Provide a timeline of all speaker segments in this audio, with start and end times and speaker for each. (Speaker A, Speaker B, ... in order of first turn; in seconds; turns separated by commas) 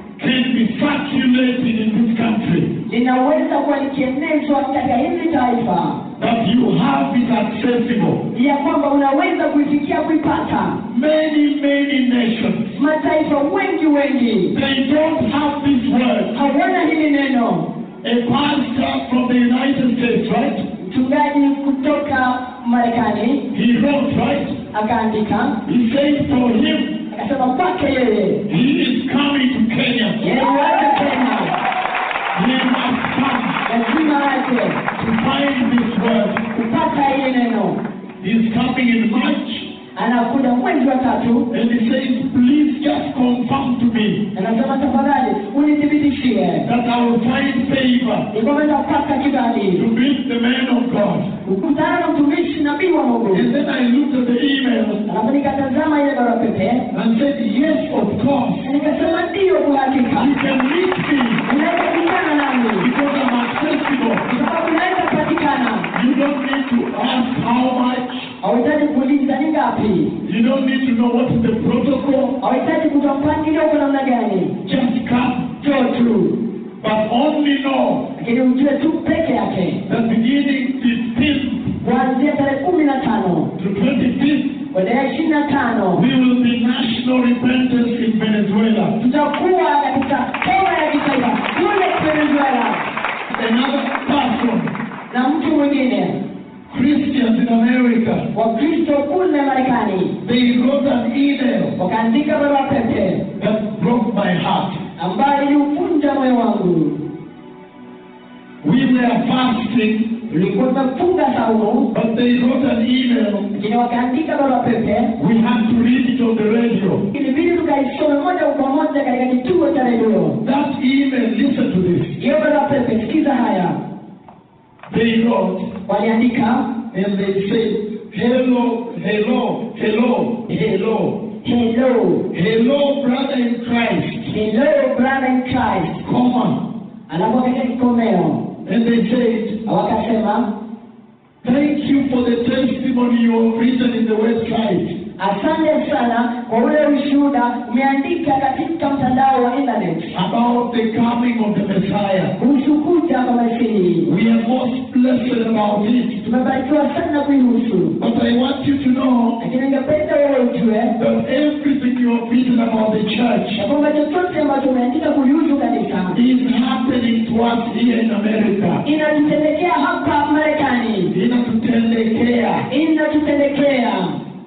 Speaker A: 0.2-2.7, Speaker B: 2.9-6.0, Speaker A: 6.2-8.2, Speaker B: 8.3-10.8, Speaker A: 10.9-12.8, Speaker B: 12.7-14.5, Speaker A: 14.5-16.3, Speaker B: 16.3-17.6, Speaker A: 18.0-20.6, Speaker B: 20.8-23.4, Speaker A: 23.5-24.6, Speaker B: 24.7-25.6, Speaker A: 25.6-27.0, Speaker B: 27.1-28.4, Speaker A: 28.5-30.2, Speaker B: 30.2-31.5, Speaker A: 32.3-33.6, Speaker B: 33.6-34.8, Speaker A: 34.9-36.4, Speaker B: 36.5-37.8, Speaker A: 38.2-39.7, Speaker B: 39.9-41.5, Speaker A: 41.5-44.2, Speaker B: 44.3-46.6, Speaker A: 46.6-48.3, Speaker B: 48.3-49.8, Speaker A: 49.7-51.3, Speaker B: 51.4-53.5, Speaker A: 53.3-55.0, Speaker B: 55.1-56.8, Speaker A: 56.9-58.7, Speaker B: 58.6-60.3, Speaker A: 60.1-61.4, Speaker B: 61.5-62.9, Speaker A: 62.8-64.2, Speaker B: 64.2-65.9, Speaker A: 65.9-68.3, Speaker B: 68.4-70.1, Speaker A: 70.2-72.3, Speaker B: 72.4-74.5, Speaker A: 74.6-75.5, Speaker B: 75.6-76.3, Speaker A: 76.8-78.0, Speaker B: 78.2-79.8, Speaker A: 79.8-81.7, Speaker B: 81.8-83.5, Speaker A: 83.6-84.5, Speaker B: 84.7-86.0, Speaker A: 85.9-88.9, Speaker B: 89.0-92.8, Speaker A: 93.3-94.7, Speaker B: 95.1-96.2, Speaker A: 96.7-98.3, Speaker B: 98.3-100.2, Speaker A: 100.2-101.8, Speaker B: 101.8-103.3, Speaker A: 103.4-104.8, Speaker B: 105.0-107.0, Speaker A: 108.6-110.2, Speaker B: 110.3-111.9, Speaker A: 111.9-113.5, Speaker B: 113.6-115.1, Speaker A: 115.2-117.0, Speaker B: 117.1-120.4, Speaker A: 120.4-122.2, Speaker B: 122.2-123.8, Speaker A: 124.9-125.7, Speaker B: 125.8-126.6, Speaker A: 126.9-131.2, Speaker B: 131.4-132.2, Speaker A: 132.3-134.3, Speaker B: 134.3-136.0, Speaker A: 136.0-136.6, Speaker B: 137.1-138.4, Speaker A: 138.6-139.6, Speaker B: 139.6-140.4, Speaker A: 141.4-144.9, Speaker B: 145.2-150.1, Speaker A: 150.1-152.3, Speaker B: 152.4-154.1, Speaker A: 154.0-156.2, Speaker B: 156.2-158.0, Speaker A: 158.0-159.4, Speaker B: 159.4-160.9, Speaker A: 161.0-163.6, Speaker B: 163.6-166.2, Speaker A: 166.1-168.8, Speaker B: 168.8-171.1, Speaker A: 171.1-172.7, Speaker B: 172.7-174.2